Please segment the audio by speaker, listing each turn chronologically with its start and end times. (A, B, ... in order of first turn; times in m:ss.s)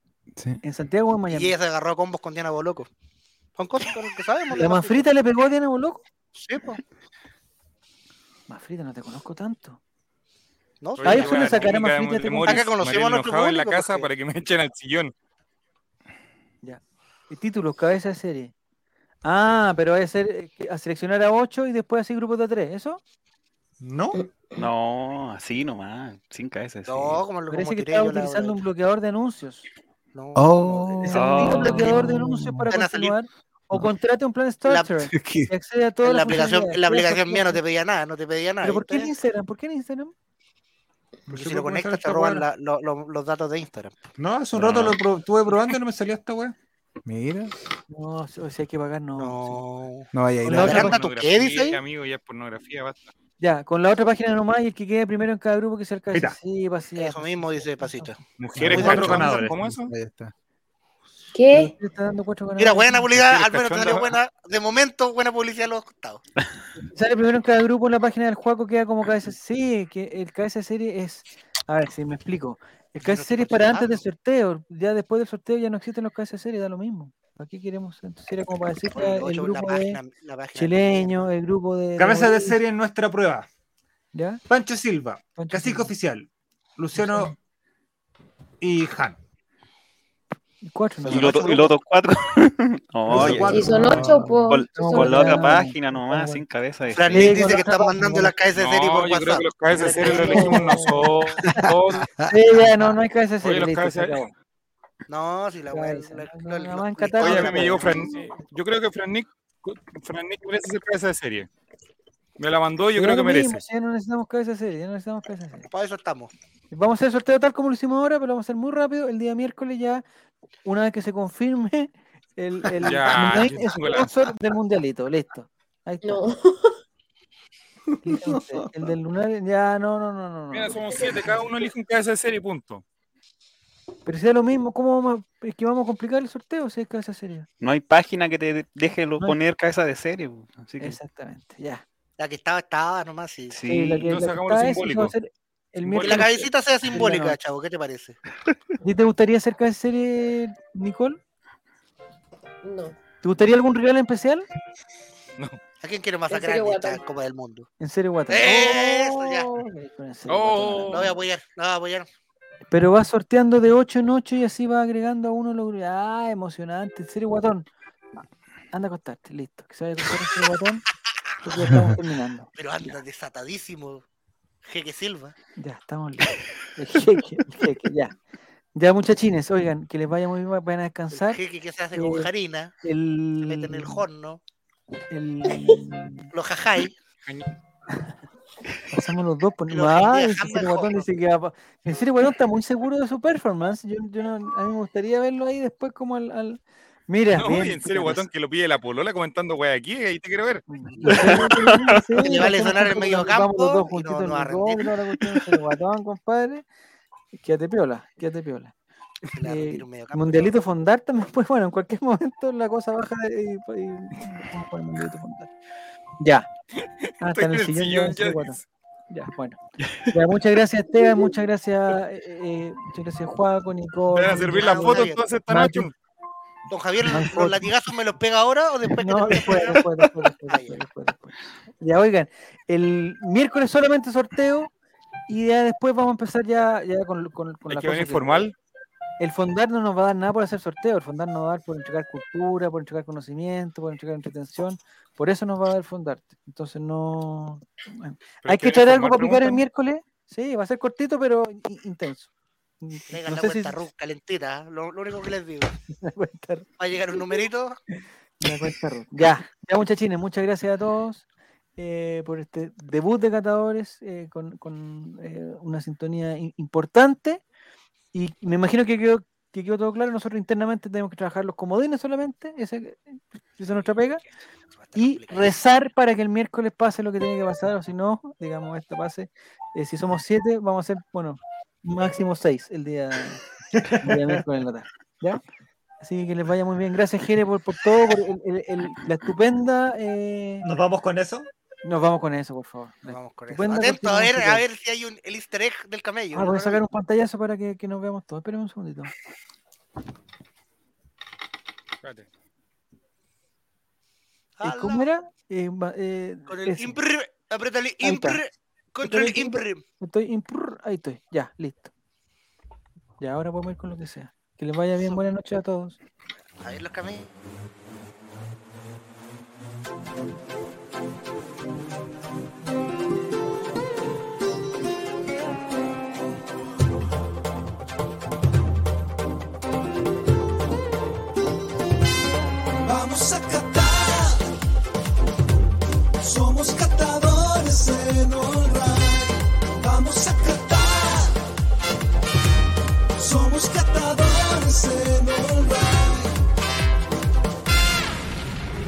0:00.4-0:00.6 A
0:00.6-0:01.5 B
0:01.3-0:02.9 C
0:03.6-0:05.1 C
0:04.5-0:06.0 B
0:06.3-0:06.8 C
0:08.5-0:09.8 B
0:10.8-0:11.7 C
0:11.0-0:15.1 D
0:11.0-0:12.7 B
0:12.5-0:14.1 C
0:16.6-0:18.5 B
0:19.2-0:23.0 B
0:23.8-0:24.2 E
0:24.1-0:24.6 F
0:24.6-0:27.3 G
0:26.8-0:28.6 C
0:27.5-0:29.7 B
0:30.1-0:31.7 C
0:30.3-0:32.7 A
0:30.9-0:37.6 B
0:31.1-0:31.9 G
0:32.7-0:33.2 C
0:34.6-0:35.0 C
0:35.0-0:35.5 A
0:36.0-0:39.1 C
0:38.6-0:40.1 B
0:41.3-0:42.5 E
0:41.3-0:43.9 C
0:44.2-0:46.5 E
0:44.6-0:44.9 A
0:47.0-0:47.5 A
0:47.9-0:49.6 B
0:49.2-0:51.8 C
0:50.1-0:51.0 A
0:50.4-0:51.0 B
0:50.5-0:53.1 D
0:53.4-0:58.2 B
0:57.0-0:59.2 C
0:58.4-0:59.9 D
0:58.5-1:00.3 A
0:58.8-0:59.5 E
1:01.3-1:01.7 F
1:01.5-1:03.1 B
1:02.6-1:06.2 C
1:03.2-1:04.2 D
1:06.8-1:20.0 B
1:13.0-1:14.0 C
1:18.9-1:21.3 C
1:20.5-1:22.6 B
1:22.0-1:23.5 E
1:24.1-1:24.4 B
1:24.5-1:27.3 E
1:25.4-1:25.9 B
1:26.9-1:27.3 B
1:28.6-1:29.2 E
1:30.6-1:31.7 B
1:31.0-1:31.7 C
1:31.0-1:37.4 G
1:33.1-1:34.4 A
1:33.1-1:34.0 E
1:33.3-1:33.9 B
1:33.5-1:35.6 F
1:34.7-1:36.4 B
1:36.9-1:40.9 C
1:37.1-1:38.3 B
1:38.6-1:42.1 D
1:39.8-1:41.7 B
1:41.4-1:42.9 A
1:42.3-1:44.3 B
1:43.4-1:44.3 D
1:45.1-1:48.1 C
1:45.7-1:48.3 B
1:47.2-1:51.5 D
1:52.4-1:53.6 D
1:52.9-1:55.7 B
1:55.7-1:56.3 C
1:56.7-2:00.0 B
2:00.6-2:06.3 B
2:02.8-2:04.3 D
2:06.0-2:06.8 F
2:08.0-2:11.7 B
2:08.0-2:08.7 A
2:10.5-2:12.8 D
2:14.0-2:17.5 B
2:17.6-2:21.0 G
2:20.8-2:21.8 B
2:22.2-2:23.6 C
2:23.5-2:24.1 G
2:23.6-2:27.4 B
2:24.0-2:25.1 D
2:25.8-2:26.3 D
2:26.0-2:28.2 C
2:28.8-2:31.2 B
2:32.6-2:32.9 F
2:33.2-2:34.5 B
2:35.8-2:37.7 C
2:36.3-2:37.0 F
2:37.8-2:41.2 B
2:38.3-2:39.5 C
2:40.3-2:41.1 D
2:40.9-2:42.1 C
2:42.7-2:47.7 B
2:48.7-2:50.8 B
2:51.4-2:53.0 B
2:52.5-2:54.0 C
2:54.6-2:55.3 C
2:55.6-2:58.1 B
2:58.8-3:01.4 B
3:01.2-3:02.7 C
3:01.9-3:02.3 B
3:02.8-3:04.0 B
3:03.4-3:04.4 C
3:05.1-3:06.3 B
3:06.3-3:06.9 C
3:08.9-3:18.2 B
3:09.7-3:11.0 C
3:17.3-3:20.6 D
3:20.7-3:26.6 B
3:21.0-3:22.0 G
3:22.2-3:24.8 C
3:27.4-3:28.7 B
3:29.2-3:35.4 B
3:29.3-3:30.6 C
3:36.2-3:36.5 B
3:37.0-3:38.6 D
3:37.2-3:45.9 B
3:44.1-3:45.9 D
3:44.5-3:45.3 C
3:46.7-3:49.9 C
3:47.0-3:47.7 B
3:48.9-3:54.7 B
3:50.4-3:50.8 C
3:55.3-3:58.5 B
3:57.7-3:58.5 D
3:59.2-4:12.3 B
4:08.4-4:09.6 D
4:12.8-4:13.8 B
4:13.1-4:15.8 C
4:15.9-4:17.4 B
4:16.8-4:17.8 C
4:18.4-4:21.2 B
4:21.8-4:27.4 B
4:28.1-4:34.2 B
4:34.7-4:35.6 C
4:35.0-4:43.4 B
4:43.7-4:44.4 E
4:44.0-4:45.4 B
4:46.0-4:50.6 B
4:50.6-4:51.5 E
4:51.8-4:54.6 B
4:53.0-4:56.8 C
4:56.3-4:59.1 B
5:04.6-5:05.0 C
5:04.6-5:07.0 B
5:06.5-5:09.8 C
5:08.0-5:08.4 B
5:09.0-5:11.9 B
5:13.2-5:16.0 B
5:16.6-5:17.3 C
5:32.8-5:34.5 H
5:36.2-5:41.4 H
5:43.2-5:46.4 H